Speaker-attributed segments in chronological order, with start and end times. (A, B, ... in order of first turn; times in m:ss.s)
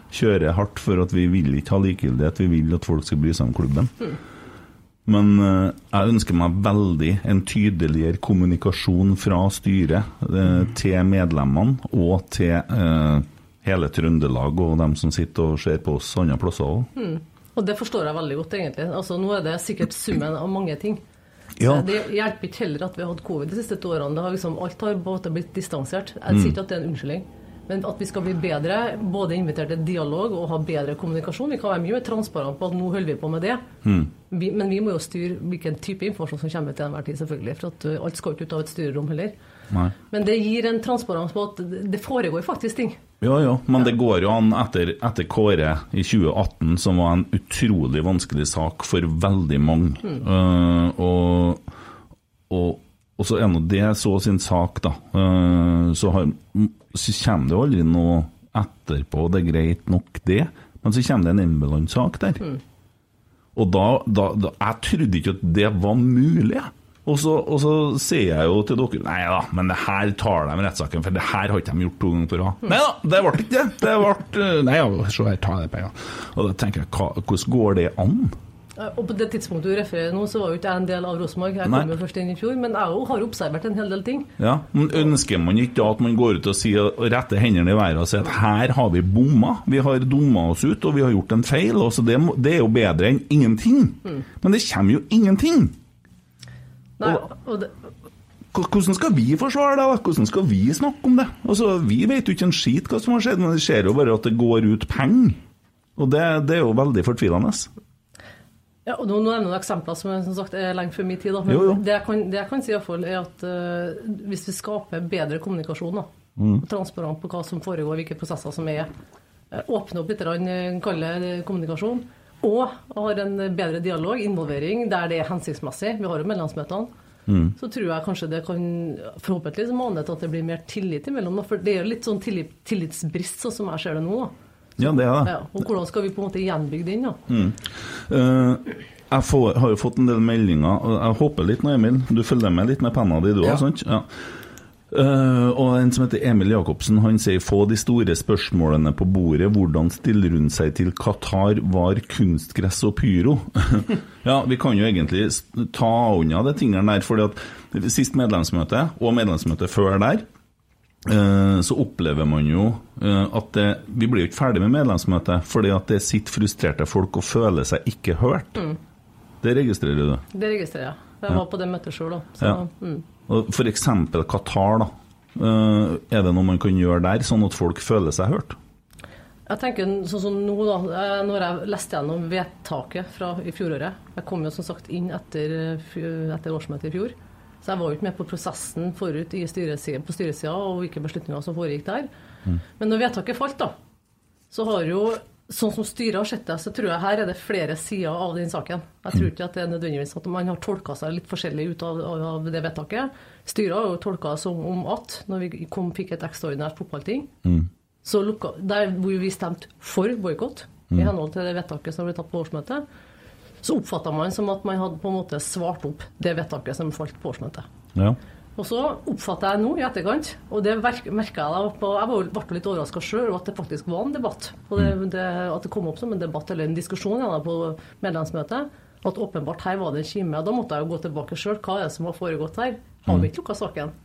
0:00.1-0:04.1 A
0:05.0-0:16.9 A
0:17.0-0:21.0 B
0:21.6-0:21.9 A
0:21.6-0:33.6 B
0:26.3-0:26.5 A
0:33.8-0:34.1 A
0:34.3-0:39.3 B
0:40.1-0:43.0 B
0:43.2-0:51.6 A
0:52.5-1:02.4 A
1:03.6-1:18.3 A
1:18.8-1:24.3 B
1:21.6-1:21.9 A
1:24.4-1:35.7 A
1:37.0-1:37.7 B
1:38.5-1:45.4 A
1:46.0-1:47.7 A
1:48.8-1:56.1 B
1:51.5-1:51.8 A
1:56.4-1:56.6 A
1:56.6-1:58.9 B
1:59.5-2:06.9 B
2:07.3-2:07.5 A
2:07.6-2:14.3 B
2:14.8-2:15.3 A
2:14.8-2:17.2 B
2:17.3-2:24.3 A
2:24.9-2:40.2 A
2:41.0-2:48.6 A
2:49.4-2:50.2 A
2:50.3-2:53.0 B
2:53.3-2:58.6 A
2:59.5-3:12.1 B
3:12.8-3:13.7 B
3:14.5-3:27.3 B
3:28.0-3:32.8 B
3:33.6-3:37.6 B
3:38.6-3:53.9 B